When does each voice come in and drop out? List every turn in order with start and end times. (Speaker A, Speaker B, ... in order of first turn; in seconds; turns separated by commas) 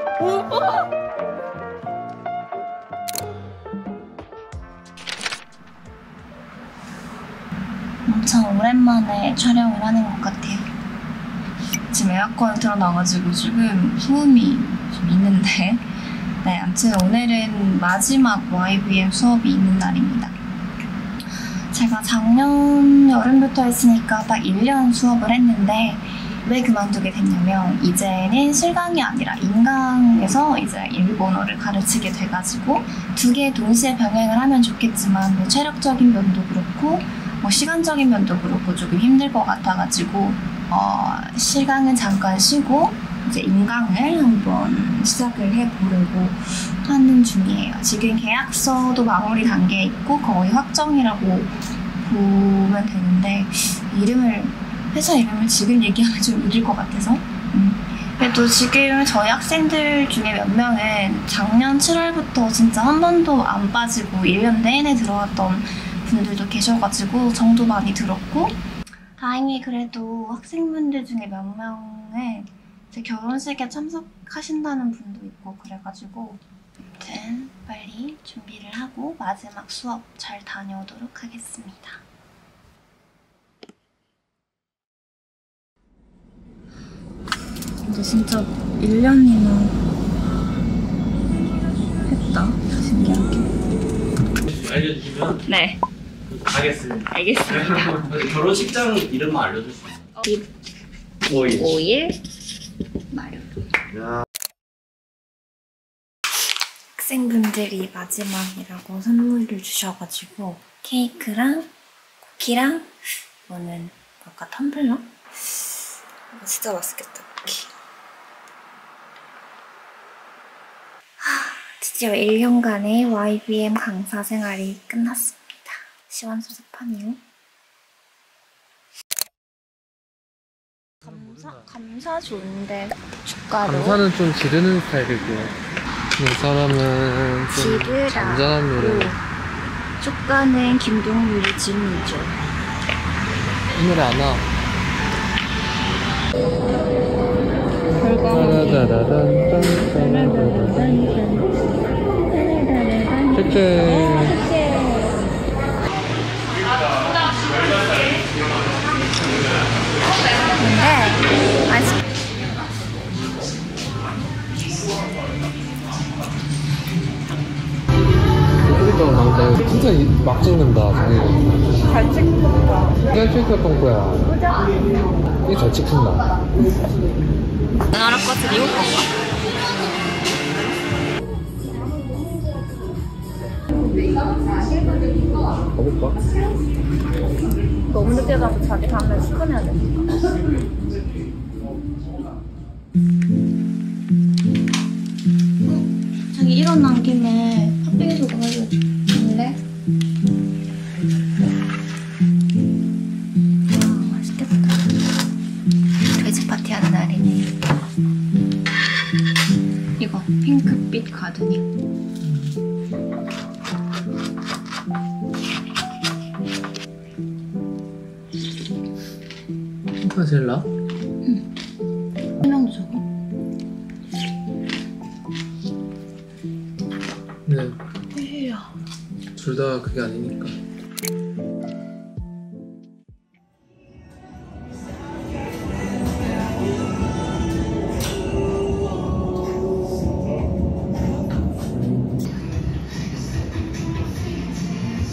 Speaker A: 8.1-10.7, Speaker A: 11.9-15.8, Speaker A: 16.4-20.4, Speaker A: 21.7-68.6, Speaker A: 69.2-76.4, Speaker A: 77.0-82.0, Speaker A: 87.8-89.8, Speaker A: 92.0-93.5, Speaker B: 94.5-95.4, Speaker A: 95.4-95.8, Speaker B: 96.3-100.0, Speaker A: 97.1-98.2, Speaker B: 101.3-101.7, Speaker A: 101.4-102.2, Speaker A: 103.1-103.6, Speaker A: 106.9-111.7, Speaker A: 112.2-112.9, Speaker A: 113.5-115.6, Speaker A: 116.3-117.7, Speaker A: 121.2-127.2, Speaker A: 131.0-134.0, Speaker C: 133.6-135.6, Speaker C: 136.2-139.1, Speaker A: 137.5-139.2, Speaker A: 140.0-142.4, Speaker C: 143.7-144.5, Speaker A: 147.9-148.9, Speaker C: 147.9-151.2, Speaker A: 152.4-153.2, Speaker C: 153.3-154.4, Speaker A: 154.4-155.1, Speaker A: 160.6-162.0, Speaker C: 168.6-171.4, Speaker C: 173.1-174.3, Speaker C: 175.4-176.3, Speaker A: 177.9-179.1, Speaker C: 185.8-186.2, Speaker A: 187.9-190.2, Speaker A: 195.6-199.6, Speaker A: 203.7-205.0, Speaker A: 206.1-207.5, Speaker A: 210.0-211.7, Speaker C: 212.2-212.5, Speaker C: 220.0-220.7, Speaker A: 222.4-223.0, Speaker C: 227.4-227.8, Speaker A: 228.1-228.7, Speaker C: 229.3-230.6